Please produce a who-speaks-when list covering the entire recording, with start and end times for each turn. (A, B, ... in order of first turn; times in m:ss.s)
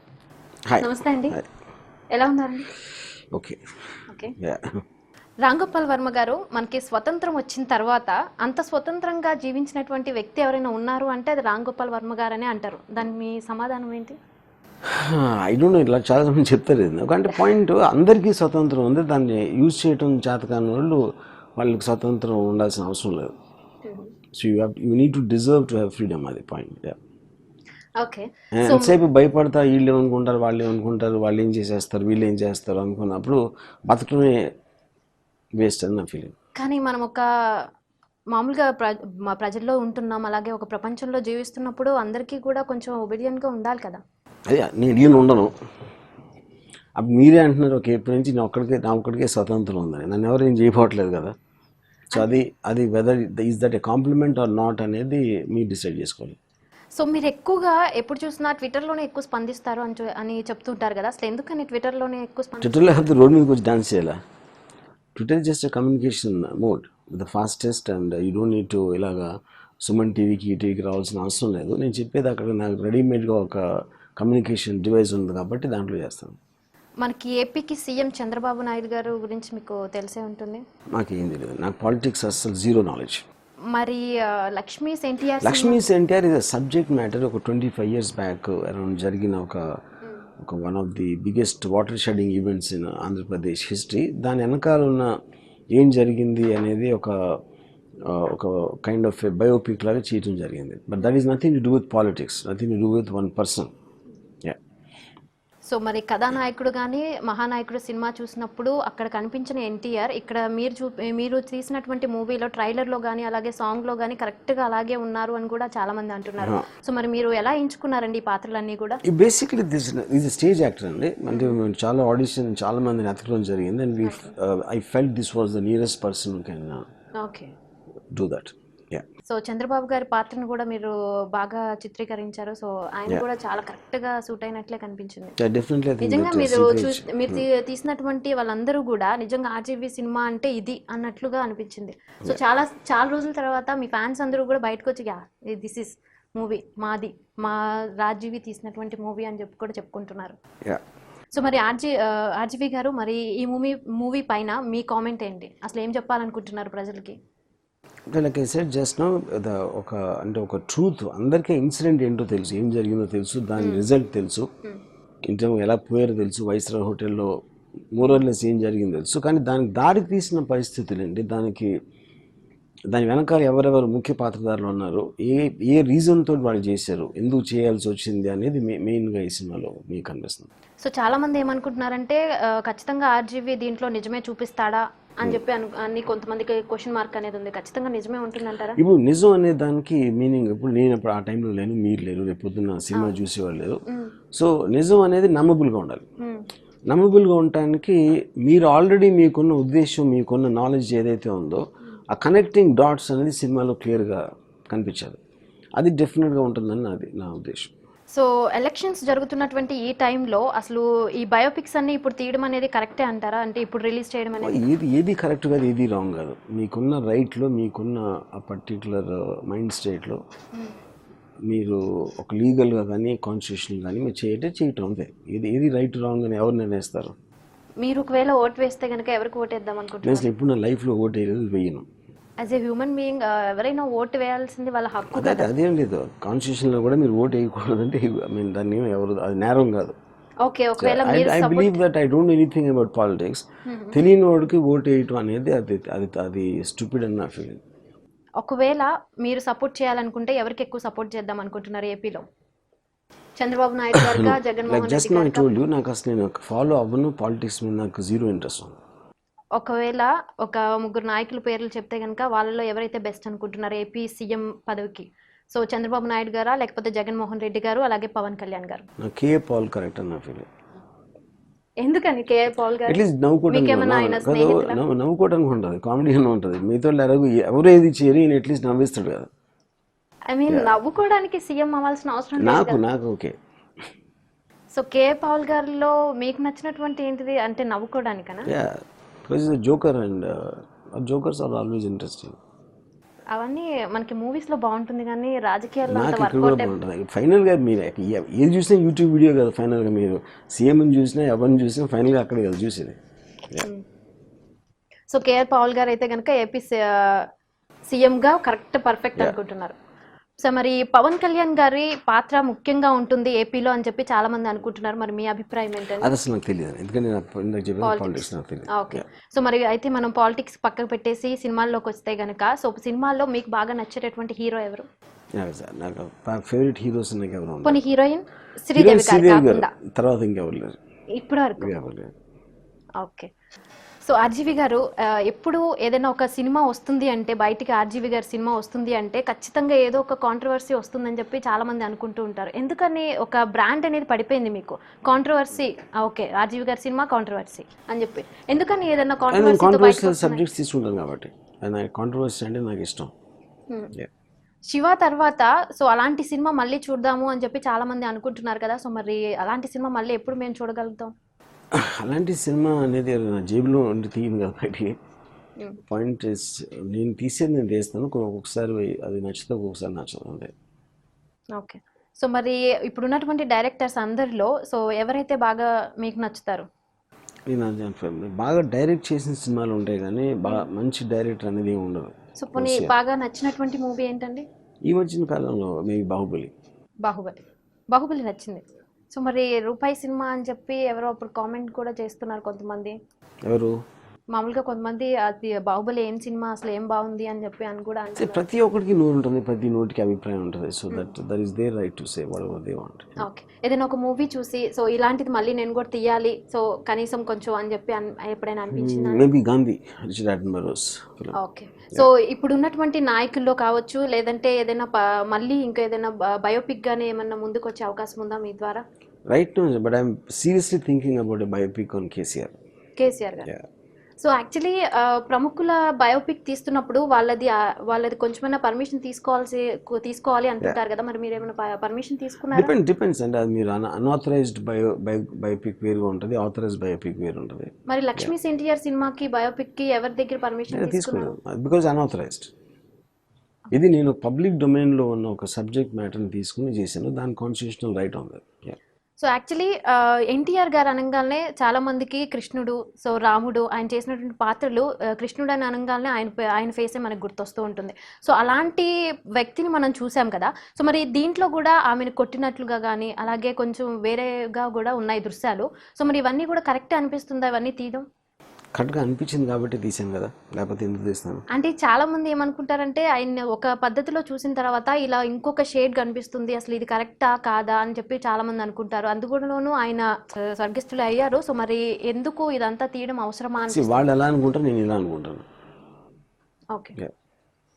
0:00.7-0:01.4 A
0:00.8-0:01.4 B
0:02.1-0:02.7 B
0:03.3-0:03.6 A
0:04.1-0:04.4 B
0:04.4-0:04.8 A
0:05.4-0:14.2 B
0:14.9-0:21.0 A
0:21.6-0:23.3 A
0:23.8-0:24.1 B
0:24.3-0:27.0 A
0:28.0-0:29.0 B
0:28.6-0:34.5 A
0:35.6-0:36.3 A
0:36.6-0:37.2 B
0:38.3-0:44.0 B
0:44.5-0:45.5 A
0:47.0-0:51.3 A
0:52.1-0:56.4 A
0:57.0-1:03.0 B
1:02.6-1:04.2 A
1:05.2-1:16.4 A
1:17.0-1:20.6 B
1:20.9-1:23.2 A
1:23.7-1:25.8 B
1:25.4-1:29.8 A
1:30.4-1:35.2 A
1:35.7-1:37.4 A
1:38.1-1:43.7 A
1:45.7-1:59.0 B
1:56.4-1:56.7 A
1:59.0-2:06.8 A
2:01.3-2:01.6 B
2:04.0-2:04.3 B
2:07.2-2:07.5 B
2:08.1-2:09.0 A
2:09.2-2:15.4 B
2:15.4-2:17.4 A
2:16.0-2:30.4 B
2:31.3-2:37.2 B
2:38.1-2:44.5 A
2:43.6-2:43.8 B
2:45.3-2:47.3 A
2:47.9-2:51.7 A
2:52.9-3:00.5 A
3:00.8-3:08.8 B
3:08.8-3:13.8 A
3:12.9-3:13.2 B
3:13.9-3:14.1 B
3:14.3-3:16.0 A
3:16.2-3:16.4 B
3:16.9-3:25.2 A
3:25.8-3:27.7 A
3:28.1-3:34.6 B
3:34.4-3:40.2 A
3:41.5-3:47.1 A
3:47.8-3:50.3 B
3:50.0-3:51.9 A
3:52.4-3:55.5 B
3:55.1-4:00.0 A
4:00.4-4:01.8 B
4:00.8-4:07.6 A
4:03.6-4:04.0 B
4:08.4-4:12.2 B
4:13.4-4:15.5 B
4:14.0-4:18.8 A
4:19.6-4:28.8 B
4:29.0-4:30.5 A
4:31.8-4:34.8 B
4:32.9-4:39.3 A
4:40.3-4:42.8 B
4:40.5-4:40.7 A
4:42.4-4:43.3 A
4:44.8-4:48.5 B
4:48.5-4:52.4 A
4:53.3-4:56.8 B
4:55.9-5:03.0 A
5:05.1-5:07.3 B
5:07.9-5:09.8 B
5:10.4-5:16.1 B
5:16.0-5:19.0 A
5:17.8-5:24.9 B
5:25.4-5:27.8 A
5:27.6-5:29.7 B
5:28.8-5:30.8 A
5:31.2-5:31.7 B
5:31.6-5:32.1 A
5:33.0-5:33.3 B
5:34.0-5:50.4 B
5:49.3-5:53.1 A
5:54.7-6:01.1 B
6:01.7-6:05.0 A
6:05.9-6:10.5 A
6:11.6-6:16.6 B
6:17.5-6:22.9 A
6:22.4-6:24.4 B
6:24.9-6:26.5 A
6:27.0-6:33.0 B
6:33.4-6:33.8 A
6:34.3-6:38.4 B
6:38.2-6:43.2 A
6:43.2-6:49.3 B
6:48.7-6:51.4 A
6:51.3-6:58.8 B
6:59.3-7:02.5 A
7:03.0-7:03.5 B
7:04.2-7:12.7 B
7:12.5-7:18.3 A
7:17.9-7:21.3 B
7:20.7-7:22.5 A
7:23.7-7:28.8 A
7:29.2-7:48.0 B
7:48.8-7:51.4 A
7:51.5-8:04.0 B
8:03.7-8:05.4 A